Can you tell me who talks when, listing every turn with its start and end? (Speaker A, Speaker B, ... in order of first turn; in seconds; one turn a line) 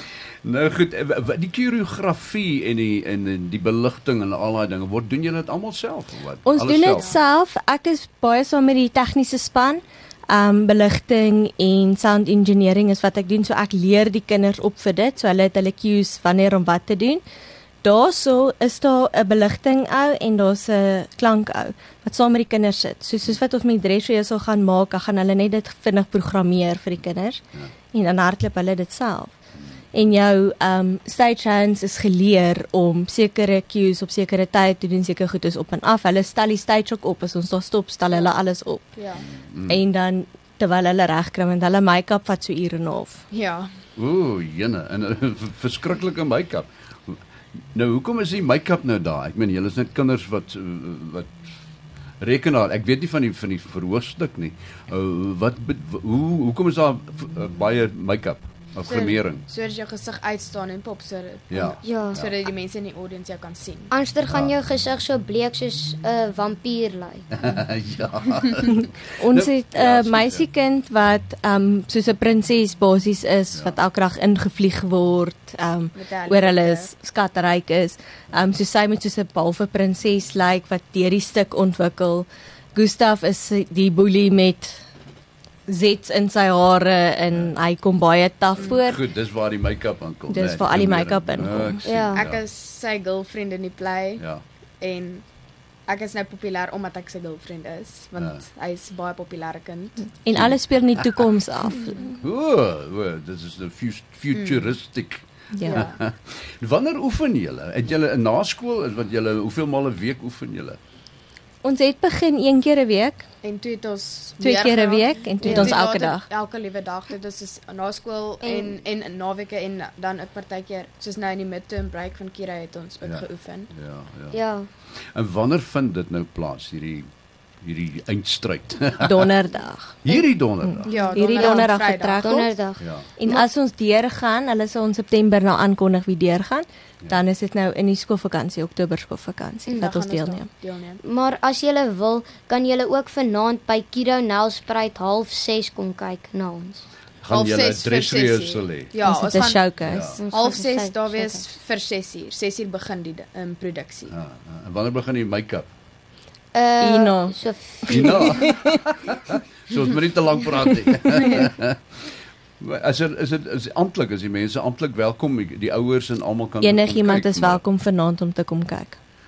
Speaker A: 0.4-7.2
Speaker B: 6.5-17.2
Speaker B: 17.8-29.3
Speaker B: 29.9-39.0
Speaker C: 39.0-39.2
Speaker A: 39.3-39.8
Speaker B: 39.7-43.2
Speaker C: 43.3-43.7
Speaker A: 44.0-47.2
Speaker A: 47.7-51.4
Speaker A: 52.2-59.4
Speaker C: 58.9-63.9
Speaker A: 61.5-62.3
Speaker D: 61.8-62.2
Speaker D: 63.9-67.2
Speaker A: 64.3-64.5
Speaker A: 67.3-70.5
Speaker B: 69.2-84.8
Speaker C: 76.0-76.9
Speaker B: 85.7-89.0
Speaker A: 88.6-92.4
Speaker B: 90.3-91.8
Speaker D: 91.8-92.3
Speaker C: 92.1-94.2
Speaker C: 94.8-95.2
Speaker C: 95.9-100.1
Speaker A: 98.2-98.4
Speaker B: 100.2-102.2
Speaker A: 100.3-101.3
Speaker A: 102.2-110.8
Speaker C: 104.3-104.7
Speaker B: 105.6-105.8
Speaker C: 105.6-106.0
Speaker B: 111.6-113.3
Speaker C: 113.4-123.7
Speaker B: 114.4-116.3
Speaker D: 115.5-115.7
Speaker D: 118.4-118.8
Speaker A: 123.0-124.4
Speaker D: 124.3-124.7
Speaker A: 125.1-127.1
Speaker A: 127.6-129.3
Speaker B: 129.0-130.0
Speaker A: 130.0-130.9
Speaker B: 130.6-132.5
Speaker C: 130.9-132.3
Speaker D: 131.0-133.5
Speaker A: 132.8-133.1
Speaker B: 133.2-140.5
Speaker C: 139.8-141.0
Speaker D: 141.0-146.9
Speaker A: 147.2-148.9
Speaker C: 147.3-154.1
Speaker B: 149.0-150.1
Speaker A: 149.8-150.2
Speaker D: 150.2-151.4
Speaker A: 154.1-155.7
Speaker D: 156.5-158.4
Speaker B: 156.8-157.4
Speaker B: 157.9-158.8
Speaker A: 157.9-161.8
Speaker A: 162.6-167.6
Speaker B: 166.6-169.0